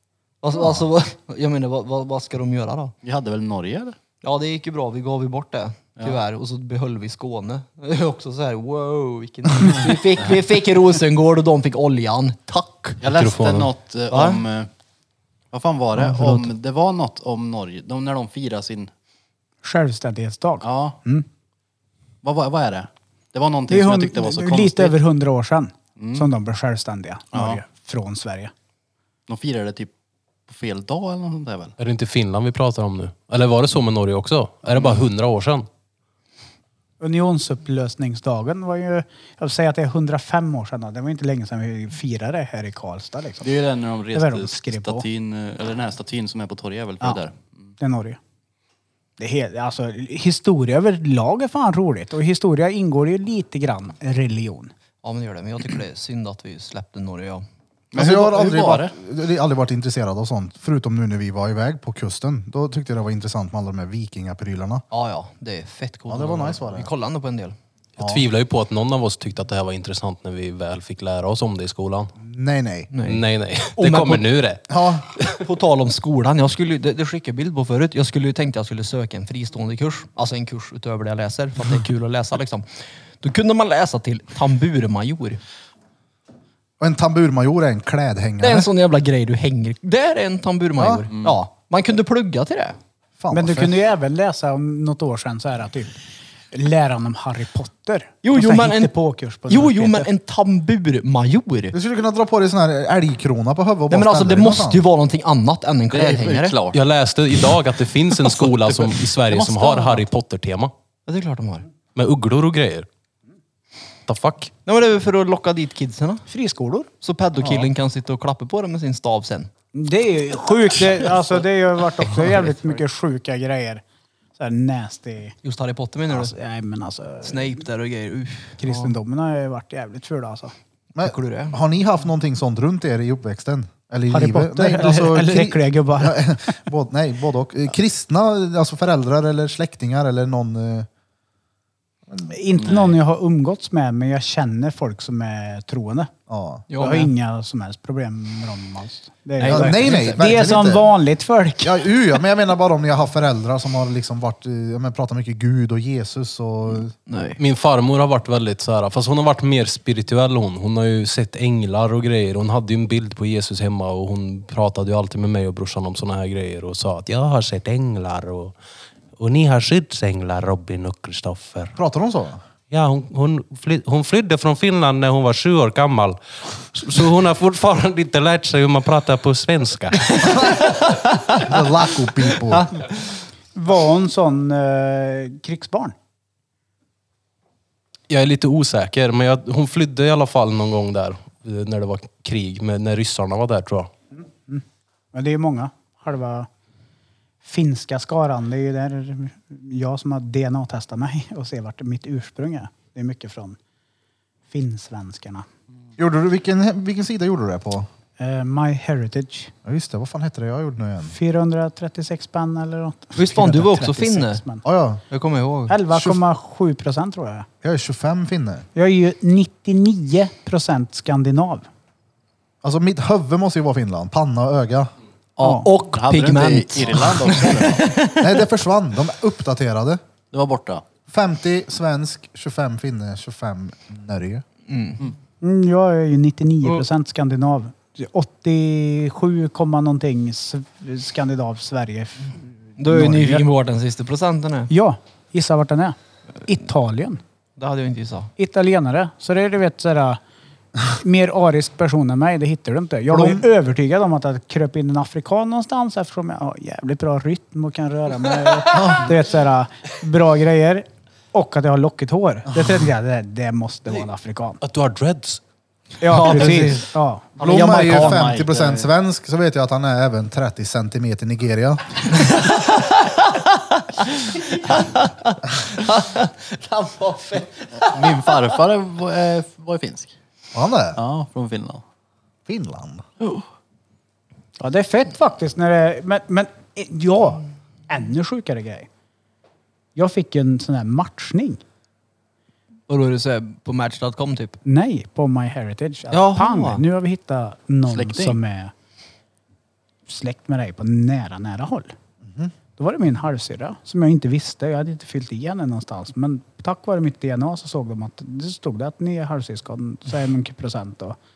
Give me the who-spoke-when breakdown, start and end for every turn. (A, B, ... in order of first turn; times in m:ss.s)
0:00.4-0:02.9 A
0:03.0-0:04.0 B
0:04.2-0:13.0 A
0:13.0-0:14.7 B
0:13.1-0:13.7 C
0:14.1-0:14.4 A
0:15.5-0:18.9 B
0:16.1-0:16.4 A
0:19.6-0:21.2 D
0:20.6-0:21.0 B
0:22.2-0:25.0 B
0:23.7-0:28.5 D
0:26.0-0:26.3 B
0:27.3-0:27.6 B
0:29.3-0:29.9 B
0:30.5-0:31.8 B
0:31.8-0:35.7 C
0:37.0-0:43.5 D
0:43.4-0:47.7 B
0:44.1-0:45.0 D
0:47.8-0:48.2 D
0:49.2-0:54.7 D
0:55.0-0:57.4 A
0:57.9-0:58.9 B
0:57.9-1:04.8 E
1:04.9-1:07.6 A
1:06.1-1:06.9 E
1:08.0-1:12.1 C
1:12.2-1:12.9 E
1:12.9-1:14.2 A
1:13.0-1:14.6 C
1:14.7-1:15.0 E
1:15.2-1:25.4 A
1:26.8-1:28.7 E
1:28.4-1:32.8 A
1:30.8-1:31.0 E
1:31.1-1:31.4 B
1:33.2-1:33.7 E
1:33.3-1:35.9 D
1:36.5-1:40.1 D
1:38.2-1:38.9 A
1:39.5-1:41.8 A
1:41.7-1:44.8 E
1:43.9-1:46.6 A
1:45.9-1:46.8 B
1:46.7-1:50.7 C
1:48.1-1:50.1 B
1:51.1-1:51.7 A
1:51.9-1:52.9 C
1:54.1-1:54.5 C
1:54.6-1:56.2 A
1:56.3-1:57.7 D
1:57.0-1:59.5 A
1:59.7-2:03.8 D
2:02.2-2:02.8 A
2:04.4-2:05.3 D
2:05.4-2:06.3 A
2:06.1-2:07.6 D
2:07.2-2:08.9 A
2:08.6-2:10.5 D
2:10.9-2:20.9 E
2:11.0-2:11.6 A
2:14.1-2:16.6 D
2:22.2-2:26.1 D
2:22.6-2:23.0 B
2:26.3-2:26.6 E
2:26.7-2:27.1 A
2:26.7-2:31.9 D
2:29.4-2:30.2 A
2:29.4-2:30.9 E
2:31.6-2:36.9 E
2:37.1-2:37.4 A
2:37.4-2:48.6 C
2:49.2-2:51.7 C
2:51.8-2:52.4 E
2:52.7-3:00.4 C
3:00.2-3:01.5 A
3:00.3-3:00.6 E
3:01.4-3:02.7 E
3:02.3-3:02.6 A
3:03.5-3:05.9 D
3:08.1-3:13.9 C
3:14.2-3:16.5 D
3:17.4-3:23.6 D
3:24.5-3:25.4 D
3:26.0-3:27.9 E
3:28.2-3:29.5 D
3:29.6-3:31.1 E
3:31.0-3:34.6 D
3:33.2-3:34.4 A
3:34.6-3:35.0 E
3:35.1-3:35.8 A
3:35.7-3:37.5 D
3:37.6-3:38.7 E
3:38.7-3:41.7 D
3:42.6-3:44.9 E
3:45.4-3:48.3 A
3:45.4-3:45.7 D
3:45.9-3:47.9 B
3:48.2-3:50.0 E
3:50.3-3:50.8 B
3:51.1-3:54.4 E
3:54.7-3:55.1 A
3:55.4-4:03.4 D
4:02.8-4:04.7 A
4:04.7-4:07.2 D
4:07.6-4:08.3 A
4:08.4-4:10.2 D
4:10.9-4:24.6 D
4:13.1-4:13.4 E
4:18.7-4:19.1 E
4:24.6-4:25.4 C
4:26.0-4:27.3 D
4:26.0-4:28.4 A
4:27.4-4:28.9 B
4:27.4-4:32.1 E
4:32.2-4:33.4 A
4:34.2-4:38.4 A
4:37.8-4:40.1 B
4:40.5-4:41.0 E
4:41.0-4:41.8 B
4:42.5-4:43.0 E
4:44.6-4:48.9 D
4:49.9-4:51.6 D
4:52.9-4:54.6 A
4:54.6-4:58.7 D
4:56.1-4:56.8 A
4:57.9-4:58.4 B
5:00.1-5:01.9 D
5:02.2-5:02.5 E
5:02.8-5:11.2 D